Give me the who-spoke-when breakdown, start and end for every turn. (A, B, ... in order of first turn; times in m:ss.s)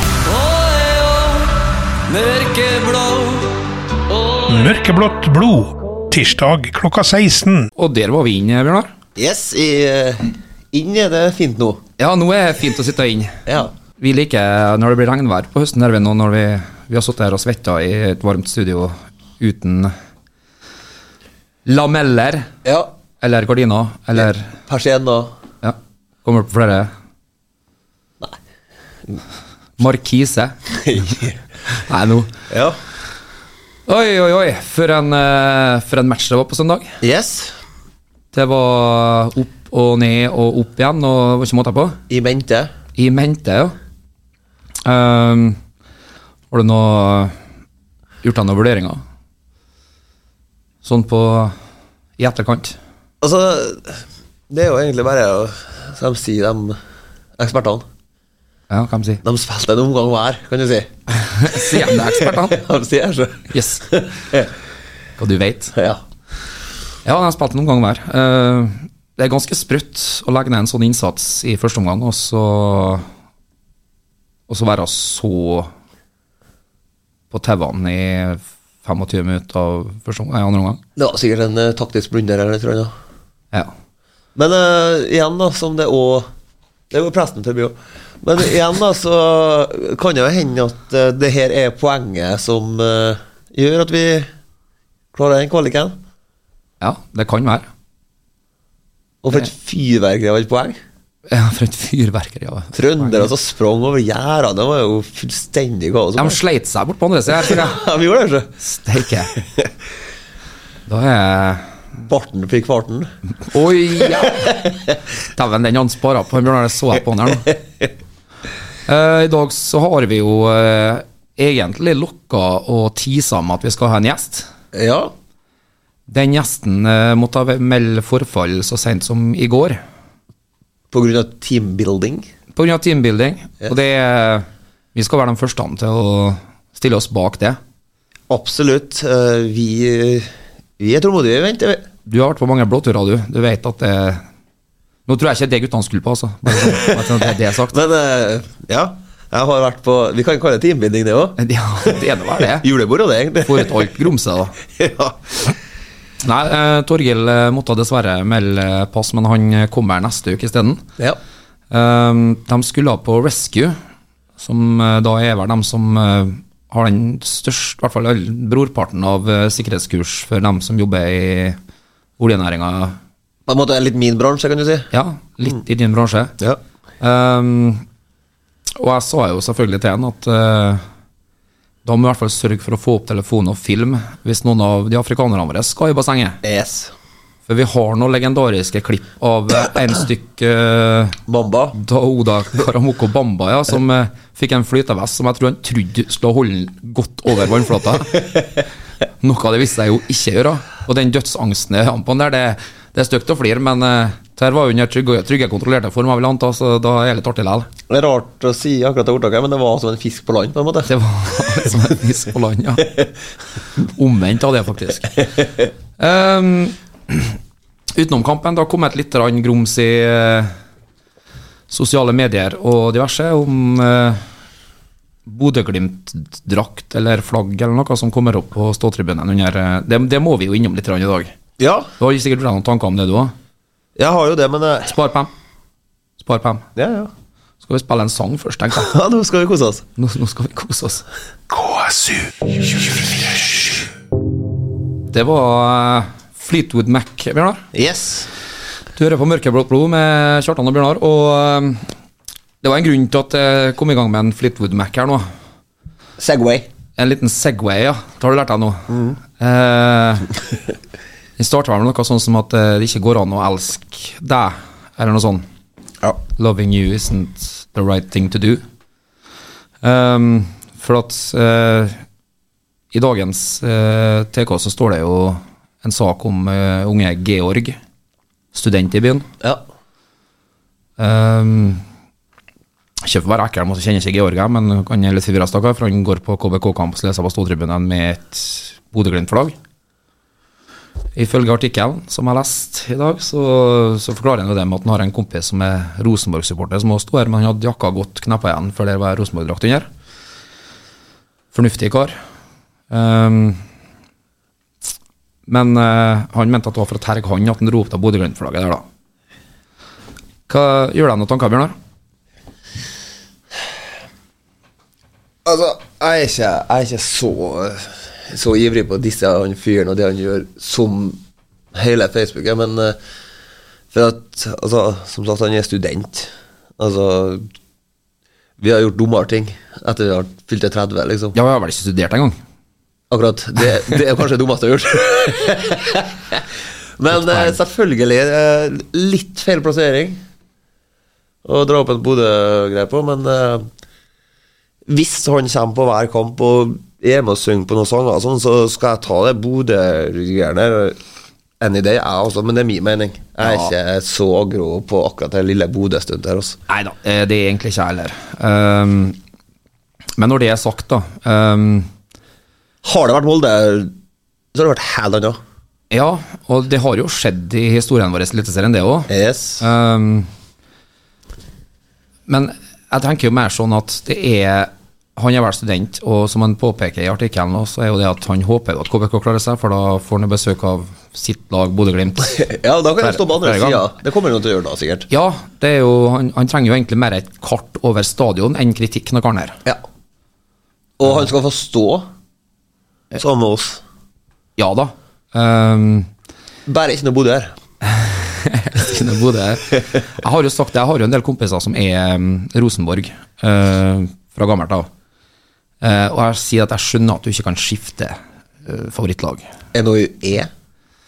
0:00.6-0:00.9 A
0:02.1-0:03.1 A
0:04.4-0:07.7 B
0:07.7-0:08.9 A
0:09.2-0:11.8 C
0:12.0-0:13.4 A
0:13.4-0:13.7 C
0:14.0-0:19.9 A
0:21.6-0:22.5 A
0:22.6-0:22.9 C
0:23.2-0:24.5 A
0:24.2-0:25.3 C
0:25.6-0:26.9 A
0:29.8-0:30.6 A
0:30.7-0:31.4 C
0:31.7-0:32.3 A
0:32.5-0:32.8 C
0:33.9-0:36.9 A
0:37.0-0:37.6 C
0:38.3-0:42.0 A
0:42.1-0:42.7 C
0:43.0-0:43.8 A
0:44.8-0:45.6 A
0:46.5-0:47.3 A
0:48.2-0:49.0 A
0:50.8-0:51.5 A
0:52.2-0:52.8 A
0:53.2-0:56.8 C
0:57.4-0:57.8 C
0:58.7-0:59.2 A
0:59.2-1:04.5 C
1:01.2-1:02.6 A
1:03.5-1:03.9 A
1:05.2-1:05.7 A
1:05.7-1:06.0 C
1:07.0-1:13.0 A
1:14.5-1:15.7 A
1:17.3-1:20.8 A
1:21.0-1:22.9 C
1:24.3-1:26.3 C
1:26.9-1:34.3 C
1:35.1-1:36.0 C
1:36.8-1:37.6 A
1:39.2-1:40.8 C
1:41.3-1:43.3 A
1:42.7-1:46.4 C
1:46.2-1:47.8 A
1:47.3-1:48.5 C
1:48.6-1:49.3 A
1:49.3-1:49.7 C
1:50.9-1:51.7 A
1:52.0-1:53.1 C
1:53.4-1:54.7 A
1:54.0-1:54.8 C
1:55.3-1:57.5 A
1:57.5-1:57.9 C
1:58.8-2:04.5 A
2:04.7-2:05.1 C
2:06.1-2:09.8 A
2:10.9-2:12.3 C
2:12.5-2:17.6 A
2:18.3-2:21.8 C
2:22.0-2:24.2 A
2:25.1-2:27.8 A
2:26.6-2:33.9 C
2:31.4-2:32.6 A
2:33.4-2:34.6 A
2:34.7-2:35.2 C
2:36.2-2:40.8 A
2:41.7-2:43.7 A
2:44.4-2:51.6 A
2:52.2-2:53.0 A
2:53.5-2:54.9 C
2:54.9-2:56.3 A
2:57.0-2:57.8 A
2:58.8-3:00.8 A
3:01.8-3:06.4 A
3:06.4-3:06.9 C
3:07.5-3:11.2 A
3:11.3-3:11.8 C
3:11.7-3:18.4 A
3:19.2-3:27.7 A
3:27.9-3:30.9 C
3:30.8-3:32.9 A
3:33.8-3:35.2 A
3:36.0-3:37.4 A
3:37.9-3:40.5 A
3:41.7-3:44.2 A
3:45.2-3:51.3 A
3:51.6-3:51.9 C
3:52.0-3:53.3 A
3:54.0-3:54.9 C
3:54.8-3:55.3 A
3:56.2-3:56.7 A
3:56.8-3:57.1 C
3:57.6-3:58.9 A
3:58.8-3:59.8 C
4:00.0-4:01.0 A
4:01.5-4:02.3 C
4:05.1-4:07.6 A
4:07.7-4:08.3 C
4:08.9-4:11.9 A
4:12.6-4:15.2 A
4:16.2-4:16.7 C
4:17.0-4:20.3 A
4:18.9-4:19.2 C
4:21.4-4:25.4 A
4:26.3-4:28.6 A
4:29.8-4:32.0 A
4:32.9-4:37.8 A
4:38.5-4:39.3 A
4:41.0-4:41.8 A
4:43.0-4:49.6 A
4:51.2-4:59.9 A
5:01.5-5:02.1 A
5:02.9-5:03.6 A
5:05.5-5:08.8 A
5:10.5-5:11.7 A
5:15.4-5:21.2 C
5:21.7-5:23.0 C
5:23.9-5:27.5 C
5:28.6-5:31.4 C
5:31.3-5:32.4 A
5:33.1-5:36.4 C
5:37.0-5:40.2 C
5:37.1-5:37.5 A
5:41.4-5:43.7 C
5:44.9-5:51.0 C
5:51.6-5:56.6 C
5:53.4-5:53.7 A
5:56.7-5:59.2 A
6:00.2-6:01.9 A
6:02.8-6:03.9 C
6:04.5-6:05.4 C
6:05.9-6:10.3 A
6:09.1-6:09.6 C
6:12.3-6:23.9 A
6:22.3-6:25.1 C
6:25.1-6:29.6 A
6:31.0-6:32.1 C
6:33.2-6:33.8 C
6:34.6-6:36.1 A
6:36.6-6:37.5 C
6:37.8-6:44.9 A
6:45.8-6:49.4 A
6:49.7-6:50.5 C